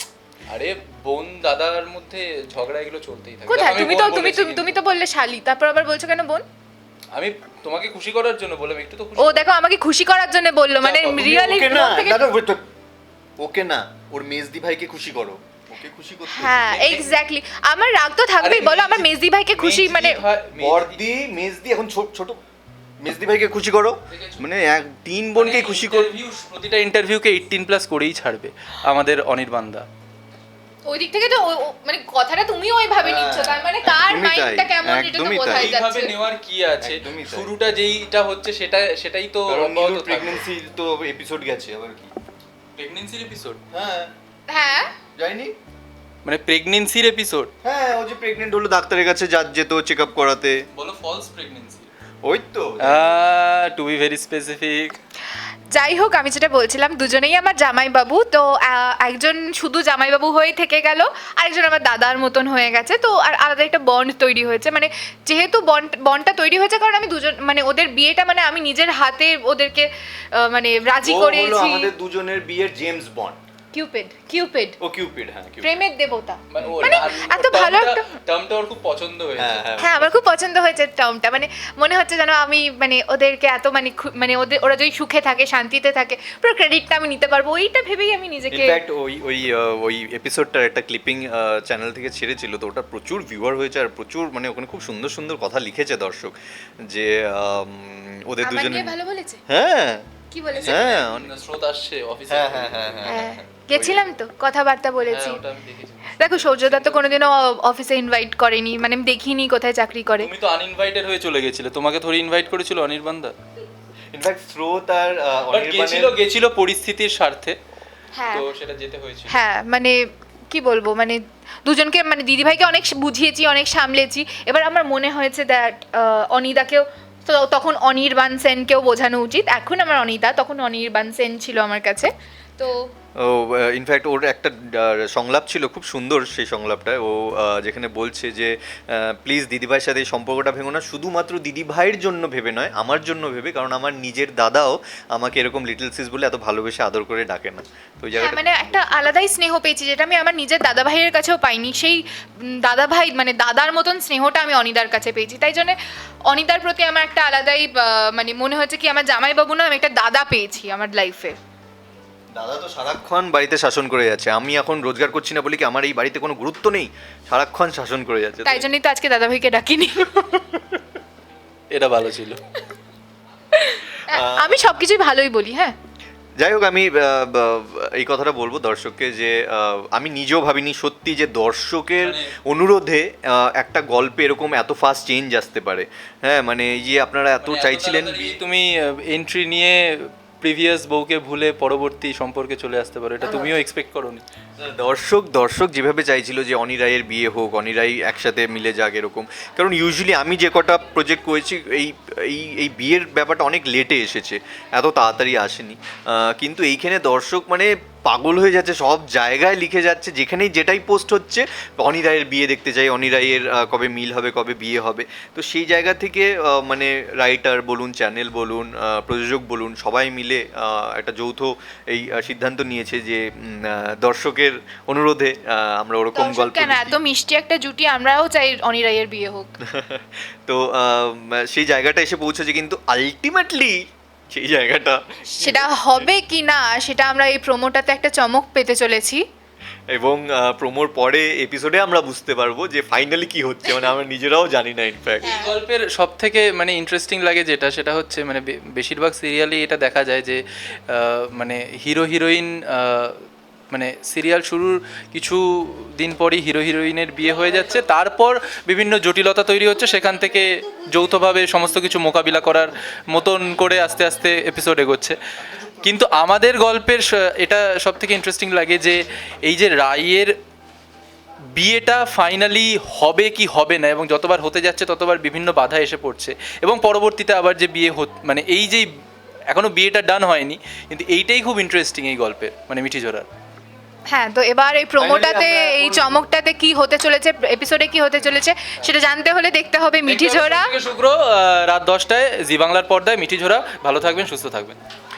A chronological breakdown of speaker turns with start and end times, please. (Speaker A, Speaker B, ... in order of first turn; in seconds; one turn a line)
Speaker A: 0.5-4.8
Speaker B: 3.5-6.4
Speaker A: 7.1-9.4
Speaker B: 9.2-12.3
Speaker A: 10.8-11.4
Speaker C: 11.2-12.7
Speaker C: 13.4-17.0
Speaker B: 16.3-20.2
Speaker A: 16.8-17.2
Speaker A: 18.4-21.0
Speaker C: 20.6-22.4
Speaker C: 23.0-26.1
Speaker A: 24.1-24.5
Speaker A: 25.4-29.9
Speaker B: 30.9-36.1
Speaker C: 33.0-35.8
Speaker A: 35.5-40.4
Speaker C: 36.8-37.5
Speaker C: 39.5-42.1
Speaker A: 42.8-43.6
Speaker C: 43.7-44.1
Speaker B: 44.5-44.9
Speaker C: 45.2-45.5
Speaker A: 46.2-47.5
Speaker C: 47.6-50.6
Speaker A: 50.8-51.9
Speaker C: 52.2-53.2
Speaker A: 52.8-55.0
Speaker B: 55.7-71.9
Speaker C: 71.0-73.4
Speaker B: 73.7-74.8
Speaker C: 74.8-75.8
Speaker B: 75.6-78.1
Speaker A: 76.5-79.7
Speaker C: 76.6-77.1
Speaker C: 79.4-80.2
Speaker B: 79.8-88.8
Speaker C: 88.5-99.0
Speaker B: 98.4-99.4
Speaker C: 99.5-100.1
Speaker B: 100.3-100.8
Speaker A: 100.5-103.2
Speaker C: 100.7-101.3
Speaker C: 102.3-104.0
Speaker B: 103.1-105.4
Speaker A: 105.1-107.3
Speaker B: 106.2-110.3
Speaker A: 110.2-113.4
Speaker C: 114.1-116.2
Speaker A: 115.5-117.6
Speaker B: 118.2-118.5
Speaker A: 118.3-119.3
Speaker B: 119.3-132.7
Speaker C: 133.2-148.8
Speaker B: 148.2-152.0
Speaker B: 152.6-155.8
Speaker B: 156.3-161.4
Speaker C: 162.3-168.7
Speaker B: 168.4-170.5
Speaker A: 171.7-172.4
Speaker B: 173.5-175.8
Speaker C: 174.1-174.6
Speaker C: 176.4-188.4
Speaker A: 182.0-182.3
Speaker A: 187.4-194.2
Speaker C: 193.2-193.6
Speaker C: 194.6-227.0
Speaker B: 226.2-229.5
Speaker C: 229.7-236.1
Speaker B: 235.4-239.2
Speaker C: 239.9-245.4
Speaker A: 245.2-265.2
Speaker B: 245.2-245.5
Speaker A: 265.8-270.3
Speaker A: 271.5-278.9
Speaker A: 279.5-283.3
Speaker B: 284.1-290.7
Speaker C: 285.0-286.2
Speaker A: 290.1-294.8